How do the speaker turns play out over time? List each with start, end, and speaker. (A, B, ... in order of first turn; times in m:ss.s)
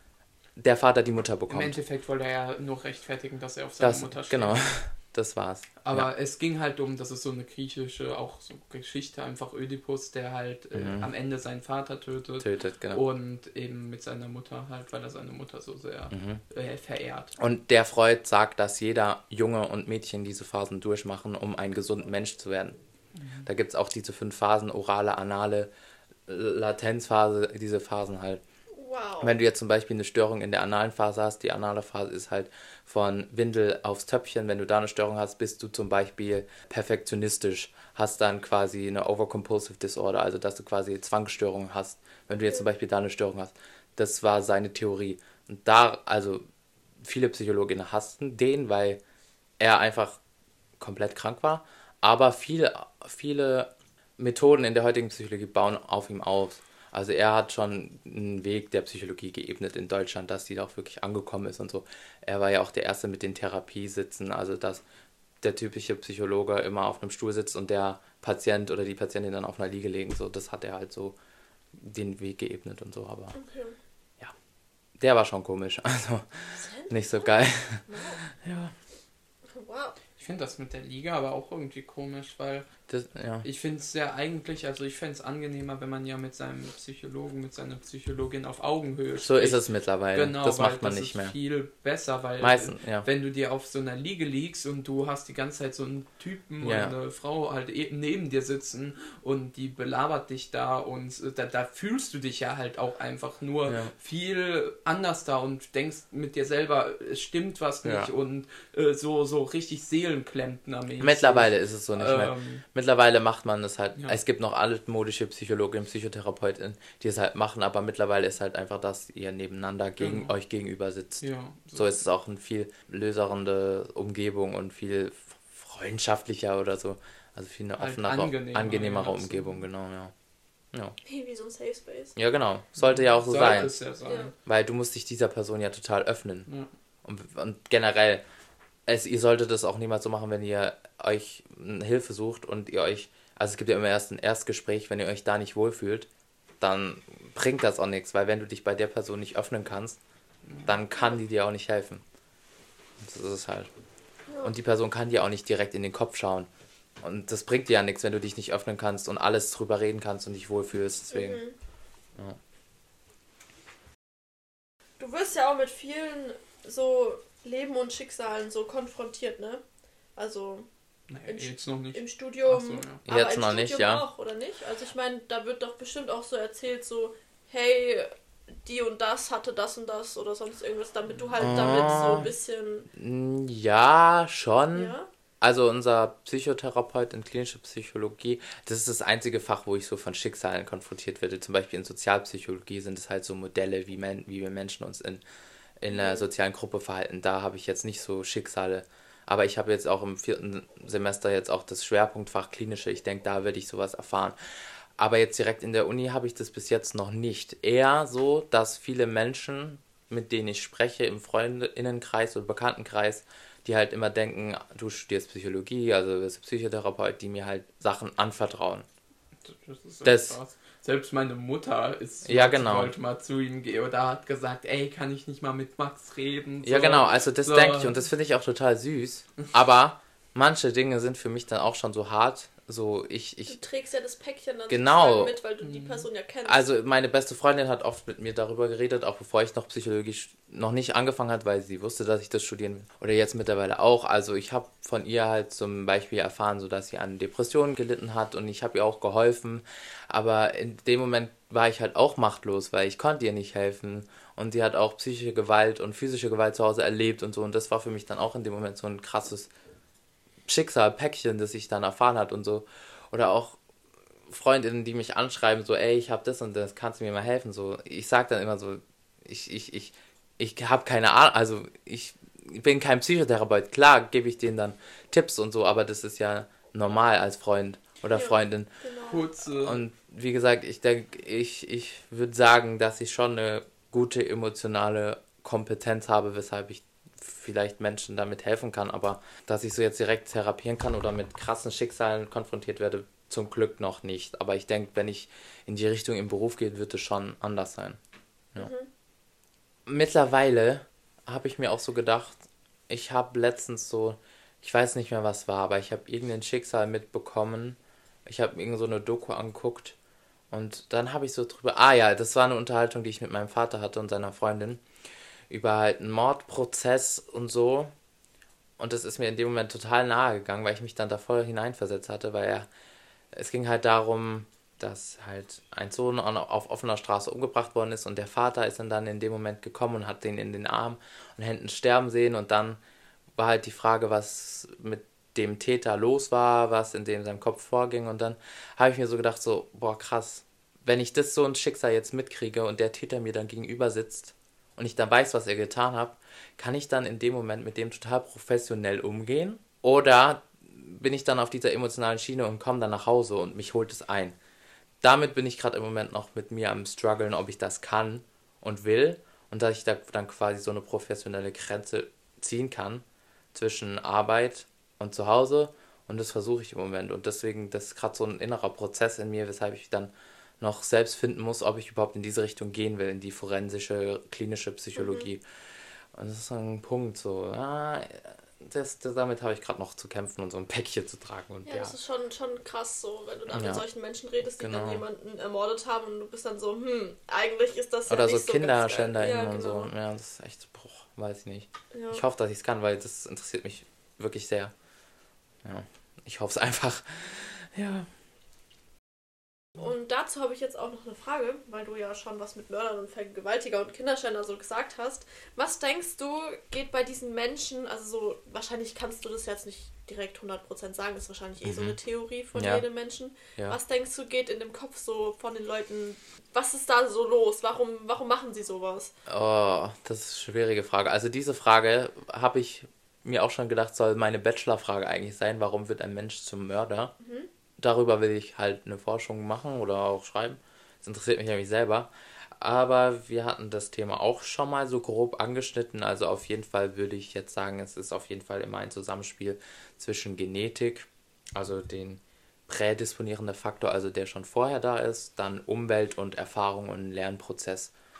0:00.6-0:01.8 A
0:01.5-0:04.8 B
0:03.8-0:06.1 A
0:05.8-0:17.3 B
0:10.7-0:11.1 A
0:12.4-0:13.0 A
0:16.1-0:16.4 A
0:17.4-0:22.8 A
0:23.2-0:23.5 B
0:23.4-0:25.7 A
0:26.3-0:28.4 A
0:28.8-0:29.3 C
0:29.2-0:46.4 A
0:47.0-0:49.0 A
0:49.6-0:50.2 A
0:50.8-1:04.8 A
1:05.4-1:11.2 A
1:11.8-1:13.4 A
1:13.3-1:13.8 C
1:15.0-1:18.7 A
1:16.6-1:16.9 C
1:17.9-1:18.2 C
1:19.5-1:20.0 C
1:20.2-1:22.7 B
1:22.9-1:23.5 A
1:23.4-1:29.6 B
1:29.2-1:31.3 A
1:30.1-1:52.6 B
1:32.4-1:33.1 A
1:36.6-1:36.9 A
1:43.7-1:43.9 A
1:47.8-1:48.1 A
1:51.0-2:01.2 A
2:00.0-2:00.3 B
2:01.2-2:02.0 B
2:01.8-2:10.1 A
2:07.8-2:09.6 B
2:11.0-2:12.1 C
2:12.2-2:13.7 A
2:12.9-2:14.3 B
2:14.1-2:14.3 C
2:14.5-2:16.5 A
2:17.0-2:18.2 A
2:18.9-2:26.1 A
2:26.6-2:30.0 A
2:30.6-2:32.0 A
2:33.0-2:33.7 A
2:34.3-2:34.5 C
2:34.4-2:36.5 A
2:37.0-2:41.4 A
2:41.1-2:41.6 C
2:45.0-2:49.6 C
2:50.2-2:50.7 C
2:51.1-2:53.0 B
2:51.3-3:02.9 C
2:53.1-2:54.0 A
3:01.1-3:01.6 B
3:01.4-3:02.3 A
3:02.9-3:15.2 A
3:04.7-3:05.1 C
3:15.8-3:24.4 A
3:15.9-3:16.3 C
3:25.0-3:38.9 A
3:39.4-3:48.0 B
3:40.0-3:40.4 A
3:42.3-3:42.9 A
3:46.6-3:53.6 A
3:53.5-3:56.6 C
3:54.7-3:55.4 A
3:55.6-3:56.1 B
3:56.5-4:19.5 A
4:20.5-4:23.6 A
4:24.3-4:38.7 A
4:38.1-4:39.2 C
4:39.1-4:39.8 B
4:39.6-4:58.0 A
4:58.6-4:58.9 C
4:59.9-5:10.0 A
5:10.5-5:14.8 A
5:15.5-5:17.9 A
5:18.8-5:22.7 A
5:23.3-5:32.8 A
5:33.4-5:54.4 A
5:55.0-6:15.4 A
6:15.0-6:15.3 C
6:16.2-6:22.0 A
6:21.7-6:29.9 C
6:23.5-6:23.8 A
6:24.6-6:25.0 A
6:28.1-6:34.7 A
6:31.9-6:32.2 C
6:35.6-6:38.1 A
6:39.8-6:59.1 C
6:51.6-6:52.0 A
6:52.6-6:52.8 A
6:59.3-7:07.1 A
7:07.2-7:07.5 C
7:07.8-7:27.9 A